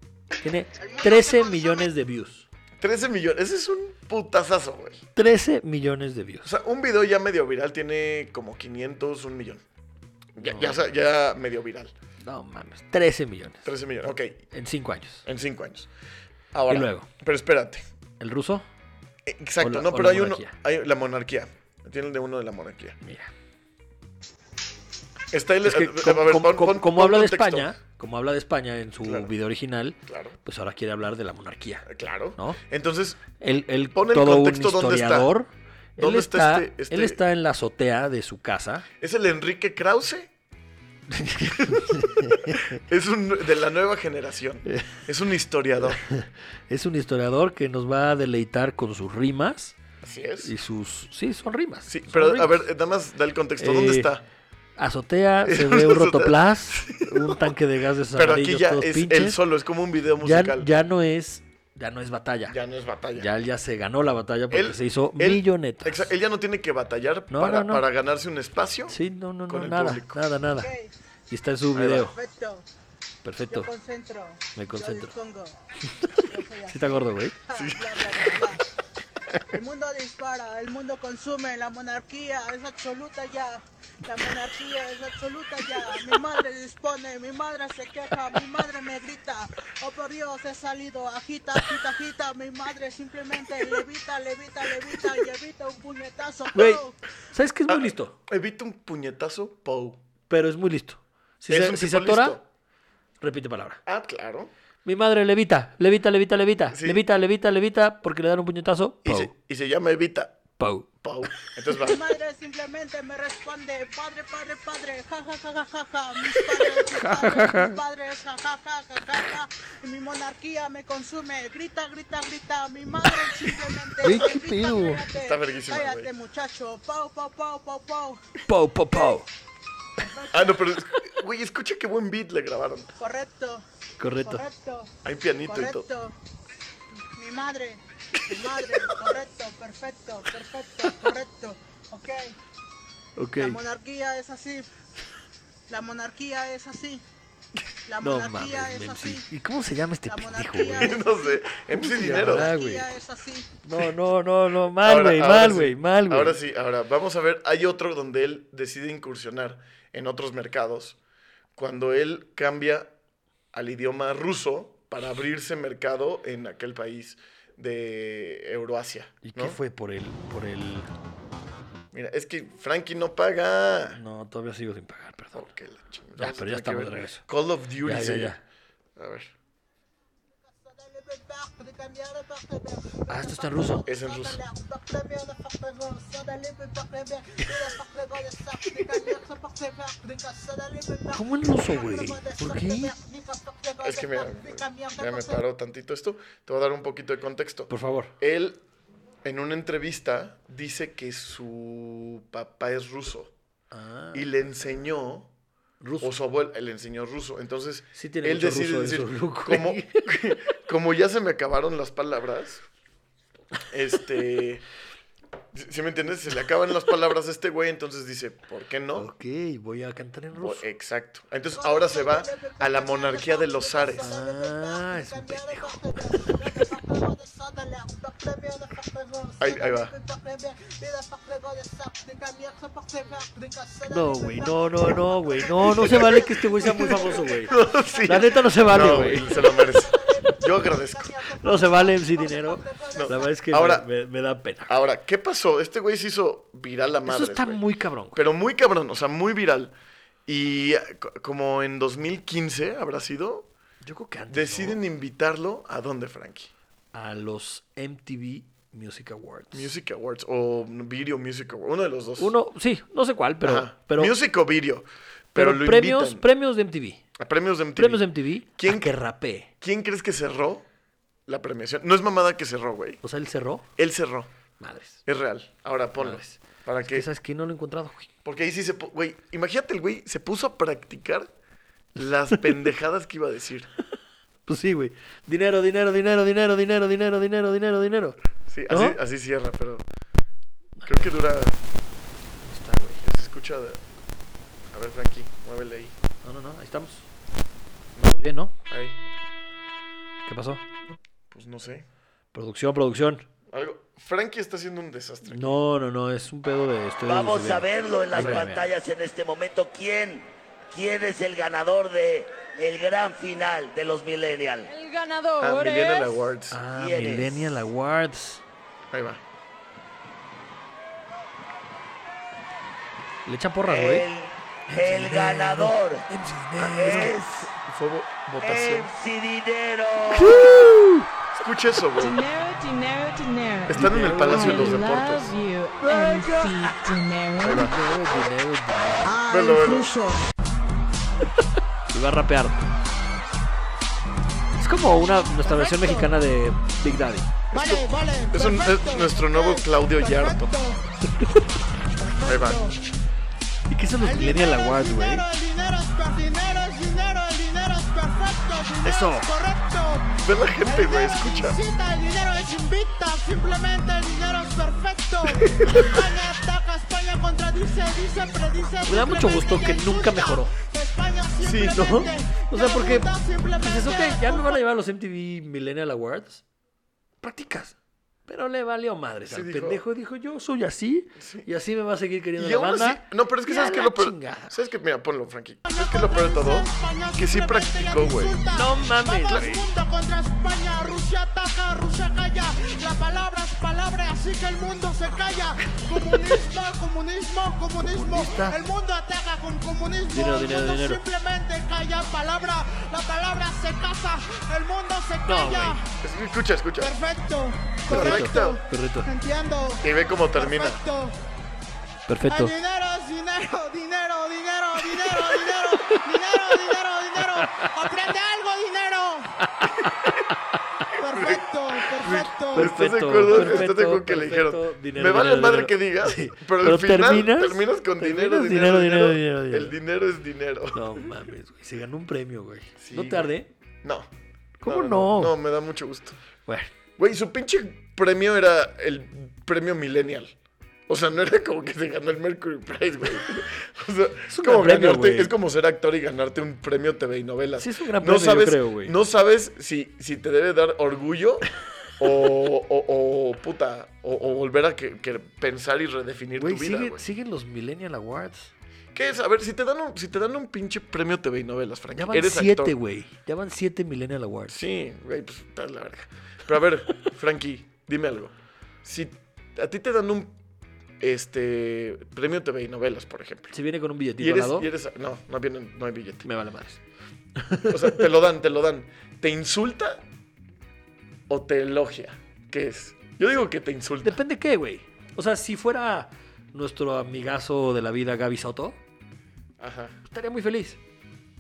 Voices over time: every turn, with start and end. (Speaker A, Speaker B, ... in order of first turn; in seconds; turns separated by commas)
Speaker A: 0.4-2.5, Speaker B: 0.8-1.9, Speaker C: 2.8-5.0, Speaker A: 5.1-6.5, Speaker C: 6.4-9.6, Speaker C: 10.3-11.9, Speaker A: 10.4-10.8, Speaker A: 12.2-13.7, Speaker C: 13.6-14.4, Speaker A: 14.5-15.2, Speaker C: 15.2-15.9, Speaker C: 16.5-17.8, Speaker A: 16.7-17.1, Speaker A: 18.2-18.6, Speaker C: 19.2-23.0, Speaker A: 19.6-20.5, Speaker A: 23.0-23.3, Speaker C: 25.3-27.7, Speaker A: 25.6-32.6, Speaker C: 29.0-29.3, Speaker C: 30.1-30.4, Speaker C: 31.8-33.3, Speaker A: 33.4-38.9, Speaker C: 33.9-35.3, Speaker C: 36.0-37.2, Speaker C: 39.0-40.3, Speaker A: 41.1-42.8, Speaker C: 41.5-46.0, Speaker A: 44.6-45.0, Speaker A: 46.1-49.8, Speaker C: 50.0-50.5, Speaker A: 50.4-52.6, Speaker C: 51.9-54.2, Speaker A: 53.6-54.1, Speaker A: 54.8-59.4, Speaker C: 55.4-57.5, Speaker C: 58.1-60.7, Speaker A: 60.2-62.6, Speaker C: 62.5-63.3, Speaker A: 63.1-66.1, Speaker C: 64.5-70.2, Speaker A: 67.3-67.8, Speaker A: 68.9-70.7, Speaker B: 70.5-70.9, Speaker A: 71.3-72.1, Speaker C: 71.7-72.1, Speaker B: 72.1-72.7, Speaker A: 73.2-73.7, Speaker B: 73.5-75.6, Speaker A: 74.5-75.1, Speaker A: 75.9-77.3, Speaker B: 76.2-78.6, Speaker C: 77.5-78.5, Speaker B: 79.5-97.0, Speaker A: 96.5-98.2, Speaker C: 97.7-100.0, Speaker A: 100.3-102.4, Speaker C: 101.5-102.4, Speaker A: 103.2-103.8, Speaker C: 103.8-104.5, Speaker A: 104.8-109.3, Speaker C: 106.7-107.0, Speaker C: 109.0-110.4, Speaker A: 110.6-110.9, Speaker C: 111.0-112.0, Speaker B: 111.7-128.2, Speaker A: 116.3-117.8, Speaker A: 124.0-125.0, Speaker C: 125.2-126.1, Speaker A: 128.5-129.3, Speaker B: 130.0-130.6, Speaker C: 130.3-132.9, Speaker B: 133.0-133.6, Speaker A: 134.0-134.4, Speaker B: 134.2-134.9, Speaker C: 135.0-135.9, Speaker B: 135.4-136.1, Speaker B: 137.2-142.3, Speaker A: 143.2-143.6, Speaker B: 143.4-144.7, Speaker B: 145.7-147.0, Speaker B: 147.9-149.2, Speaker A: 148.0-150.9, Speaker B: 150.1-153.5, Speaker C: 150.7-152.5, Speaker A: 151.7-152.9, Speaker A: 153.6-156.4, Speaker C: 154.8-161.0, Speaker C: 161.6-162.9, Speaker C: 163.5-169.6, Speaker A: 169.2-170.9, Speaker C: 171.9-174.0, Speaker A: 173.9-175.5, Speaker C: 175.3-178.3, Speaker A: 176.2-177.2, Speaker A: 177.8-178.4, Speaker C: 178.9-179.3, Speaker B: 180.6-195.4, Speaker A: 183.1-183.8, Speaker C: 183.8-184.4, Speaker A: 191.1-192.9, Speaker C: 193.8-198.6, Speaker A: 197.7-198.1, Speaker C: 199.2-203.3, Speaker A: 203.7-204.3, Speaker C: 204.1-205.3, Speaker A: 205.8-206.1, Speaker C: 206.0-212.6, Speaker A: 207.9-210.1, Speaker C: 213.7-214.6, Speaker C: 215.5-219.1, Speaker A: 218.9-220.6, Speaker C: 220.3-224.1, Speaker B: 221.5-243.3, Speaker A: 224.0-226.7, Speaker C: 229.4-229.9, Speaker A: 233.9-239.4, Speaker C: 235.6-241.2, Speaker A: 241.4-244.7, Speaker C: 242.9-243.9, Speaker C: 244.7-247.6, Speaker A: 247.1-248.2, Speaker C: 248.1-249.7, Speaker C: 250.3-253.5, Speaker A: 253.8-254.8, Speaker C: 254.3-256.5, Speaker A: 256.9-259.7, Speaker C: 259.5-262.3, Speaker A: 262.2-264.1, Speaker C: 263.4-266.2, Speaker A: 265.3-267.0, Speaker C: 267.2-268.9, Speaker A: 267.8-269.5, Speaker C: 269.6-270.6, Speaker C: 271.3-273.0, Speaker A: 273.0-273.7, Speaker C: 273.8-274.3, Speaker A: 274.6-275.0, Speaker C: 275.0-277.1, Speaker A: 276.0-278.1, Speaker C: 278.2-281.3, Speaker C: 281.9-283.7, Speaker A: 284.4-288.2, Speaker C: 288.5-289.8, Speaker A: 288.7-289.0, Speaker C: 290.8-291.6, Speaker A: 292.4-293.0, Speaker C: 293.0-293.8, Speaker C: 294.7-296.0, Speaker A: 296.2-297.1, Speaker A: 298.0-298.5, Speaker C: 298.7-299.0, Speaker A: 300.2-300.6, Speaker C: 301.3-301.9, Speaker A: 302.3-303.3, Speaker C: 303.5-305.6, Speaker A: 305.2-308.7, Speaker D: 307.0-314.7, Speaker C: 308.1-308.5, Speaker E: 314.6-316.1, Speaker C: 315.4-316.6, Speaker A: 316.5-318.4, Speaker D: 316.7-317.4, Speaker C: 318.9-319.2, Speaker A: 323.2-324.1, Speaker D: 323.7-326.0, Speaker A: 324.7-327.2, Speaker D: 326.7-327.5, Speaker C: 327.6-328.9, Speaker D: 328.4-330.7, Speaker A: 330.1-331.1, Speaker C: 331.3-332.2, Speaker E: 331.9-337.7, Speaker C: 333.7-335.3, Speaker A: 333.7-334.9, Speaker A: 335.8-336.8, Speaker C: 337.4-337.7, Speaker A: 337.5-339.1, Speaker B: 339.0-340.2, Speaker C: 339.3-339.9, Speaker A: 341.9-342.6, Speaker A: 344.6-347.3, Speaker B: 344.9-346.1, Speaker C: 347.5-350.5, Speaker B: 347.5-350.8, Speaker A: 351.0-351.4, Speaker B: 351.9-352.8, Speaker C: 352.2-352.8, Speaker A: 353.7-355.2, Speaker B: 354.0-374.6, Speaker A: 358.8-359.3, Speaker C: 360.2-361.6, Speaker C: 365.3-365.9, Speaker A: 368.9-370.5, Speaker C: 371.4-371.8, Speaker A: 371.7-373.1, Speaker A: 373.6-376.4, Speaker A: 377.2-377.8, Speaker A: 378.3-384.6, Speaker C: 379.2-379.8, Speaker C: 381.2-381.5, Speaker C: 382.3-388.4, Speaker B: 385.6-405.8, Speaker A: 388.5-389.6, Speaker A: 397.8-398.6, Speaker A: 400.1-401.0, Speaker A: 405.3-405.8, Speaker C: 406.0-406.9, Speaker B: 406.8-411.2, Speaker C: 407.9-408.6, Speaker A: 407.9-409.1, Speaker C: 409.8-410.8, Speaker A: 412.1-412.5, Speaker B: 412.3-419.3, Speaker A: 415.3-416.0, Speaker A: 417.2-417.7, Speaker A: 419.4-420.3, Speaker B: 421.0-422.8, Speaker C: 421.1-421.4, Speaker C: 422.0-431.1, Speaker A: 422.5-429.8, Speaker B: 423.3-423.6, Speaker A: 430.7-433.5, Speaker C: 432.8-433.3, Speaker C: 433.8-434.1, Speaker A: 434.6-435.4, Speaker C: 434.6-436.2, Speaker A: 436.4-436.7, Speaker C: 437.0-440.3, Speaker C: 440.9-457.0, Speaker A: 444.3-445.3, Speaker A: 447.6-448.9, Speaker A: 456.4-458.5, Speaker C: 458.9-462.8, Speaker A: 461.9-464.6, Speaker C: 464.5-470.4, Speaker C: 471.0-473.5, Speaker A: 473.5-474.7, Speaker C: 474.2-476.3, Speaker A: 476.2-476.8, Speaker A: 477.4-478.1, Speaker C: 477.7-480.0, Speaker C: 481.3-484.2, Speaker A: 484.0-488.8, Speaker C: 489.6-490.0, Speaker A: 490.1-490.8